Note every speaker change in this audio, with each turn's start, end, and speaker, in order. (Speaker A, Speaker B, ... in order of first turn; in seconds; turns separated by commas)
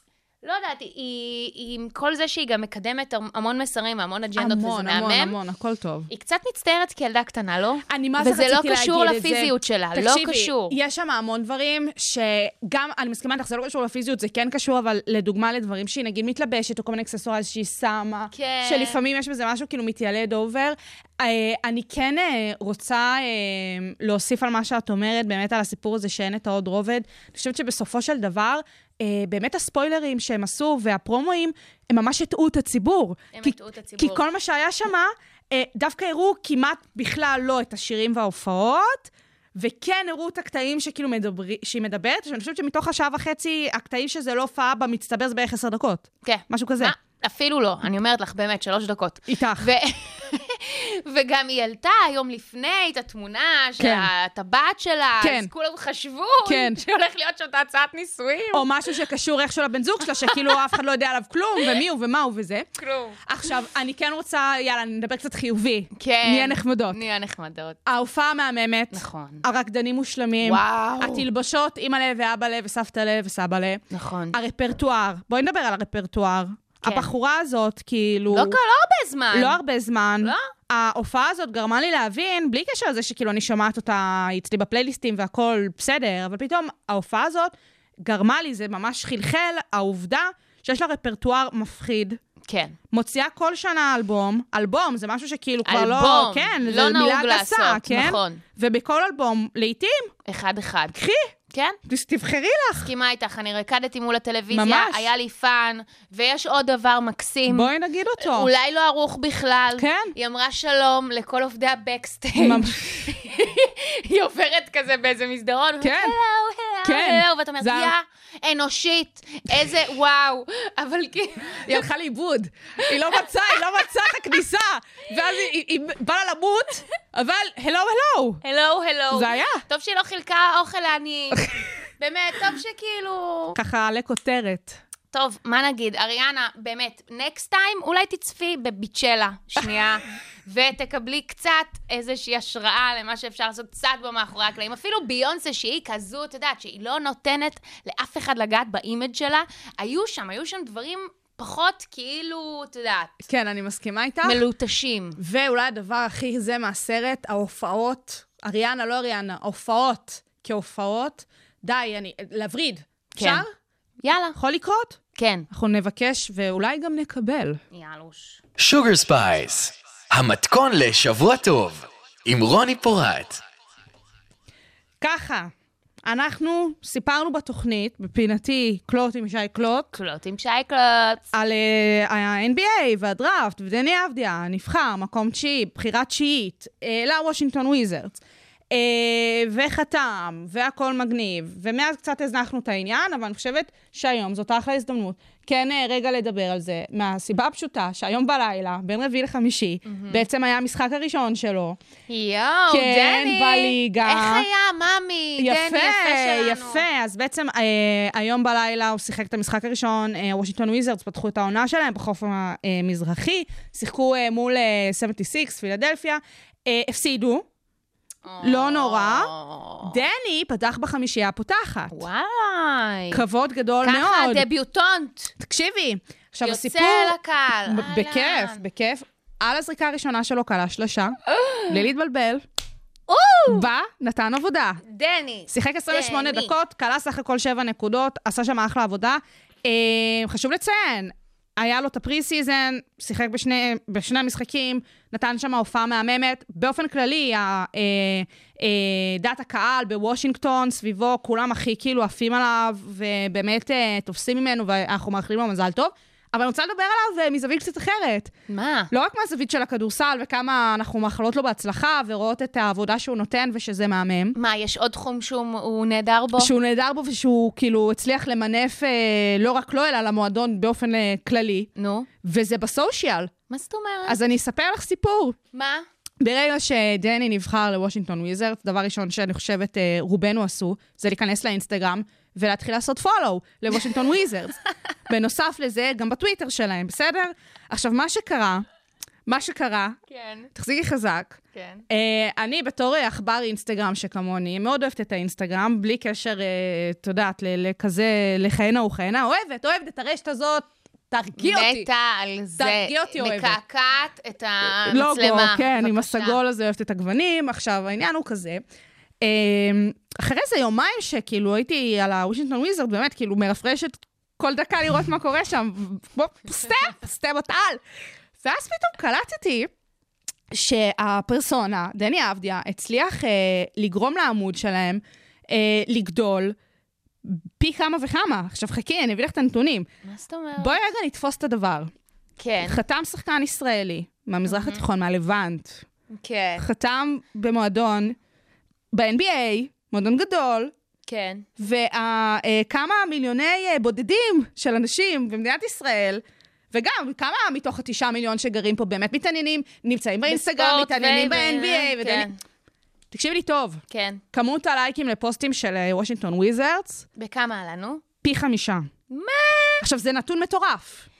Speaker A: 0.4-5.3, Speaker B: 4.4-6.1, Speaker A: 6.1-10.8, Speaker B: 7.9-46.9, Speaker A: 18.3-19.0, Speaker A: 33.3-34.2, Speaker A: 46.2-58.6, Speaker B: 49.3-49.7, Speaker B: 53.8-54.1, Speaker B: 55.2-55.5, Speaker B: 56.5-56.8, Speaker B: 58.5-62.7, Speaker A: 60.2-60.6, Speaker A: 62.8-63.2, Speaker B: 63.2-67.0, Speaker A: 65.9-67.8, Speaker B: 67.8-73.8, Speaker A: 68.9-69.4, Speaker A: 70.4-71.2, Speaker A: 73.9-74.4, Speaker B: 74.3-78.6, Speaker A: 76.8-77.1, Speaker A: 78.3-79.6, Speaker B: 79.3-92.2, Speaker A: 80.2-80.5, Speaker A: 92.5-92.8, Speaker B: 92.9-100.1, Speaker A: 95.6-98.4, Speaker A: 100.2-100.9, Speaker B: 100.9-101.3, Speaker A: 101.5-101.8, Speaker B: 101.8-102.9, Speaker A: 102.8-121.8, Speaker B: 104.5-105.1, Speaker B: 107.5-108.5, Speaker B: 109.8-110.1, Speaker B: 112.4-113.1, Speaker B: 115.8-116.1, Speaker B: 116.8-117.9, Speaker B: 121.6-128.4, Speaker A: 122.8-124.1, Speaker A: 128.4-133.6, Speaker B: 129.1-129.6, Speaker B: 133.6-134.8, Speaker A: 135.1-153.2, Speaker B: 153.2-154.4, Speaker A: 154.2-155.2, Speaker B: 155.2-163.5, Speaker A: 163.2-163.4, Speaker A: 164.0-164.4, Speaker B: 164.3-165.0, Speaker A: 165.2-165.5, Speaker B: 165.5-167.6, Speaker A: 167.7-168.4, Speaker C: 168.6-173.4, Speaker B: 175.0-175.5, Speaker B: 176.0-179.9, Speaker A: 179.9-181.2, Speaker B: 181.3-188.2, Speaker B: 188.7-201.8, Speaker A: 199.8-200.2, Speaker A: 202.1-206.8, Speaker B: 202.7-204.4, Speaker B: 205.4-217.4, Speaker A: 218.2-220.0, Speaker B: 218.4-219.3, Speaker B: 219.8-222.0, Speaker A: 221.9-223.2, Speaker B: 223.1-224.4, Speaker A: 223.8-225.3, Speaker B: 225.4-231.2, Speaker A: 226.4-228.6, Speaker A: 231.3-231.8, Speaker B: 231.7-232.4, Speaker A: 233.1-233.7, Speaker B: 233.5-234.8, Speaker A: 234.8-236.5, Speaker B: 235.5-258.3, Speaker A: 258.5-258.9, Speaker B: 258.9-264.3, Speaker A: 264.3-266.5, Speaker B: 266.4-271.7, Speaker A: 271.8-272.1, Speaker B: 272.2-273.3, Speaker A: 273.5-274.2, Speaker B: 274.1-275.4, Speaker A: 275.5-275.8, Speaker B: 276.2-288.6, Speaker B: 289.2-290.0, Speaker A: 290.1-290.5, Speaker B: 290.5-291.4, Speaker A: 291.5-291.8, Speaker B: 291.9-301.9, Speaker A: 301.4-306.4, Speaker B: 302.6-303.6, Speaker B: 304.8-308.6, Speaker B: 309.2-317.8, Speaker B: 318.4-319.7, Speaker B: 320.5-326.6, Speaker B: 327.2-329.9, Speaker A: 330.0-330.8, Speaker B: 330.6-331.9, Speaker A: 332.4-332.8, Speaker B: 332.6-335.8, Speaker A: 334.5-334.8, Speaker A: 336.1-336.6, Speaker B: 336.6-338.2, Speaker B: 338.9-340.7, Speaker A: 341.1-341.5, Speaker B: 341.6-352.3, Speaker A: 350.3-352.4, Speaker B: 353.1-353.8, Speaker A: 353.9-354.2, Speaker B: 354.3-357.1, Speaker A: 357.2-358.0, Speaker B: 358.2-358.9, Speaker A: 359.1-359.9, Speaker B: 359.8-361.1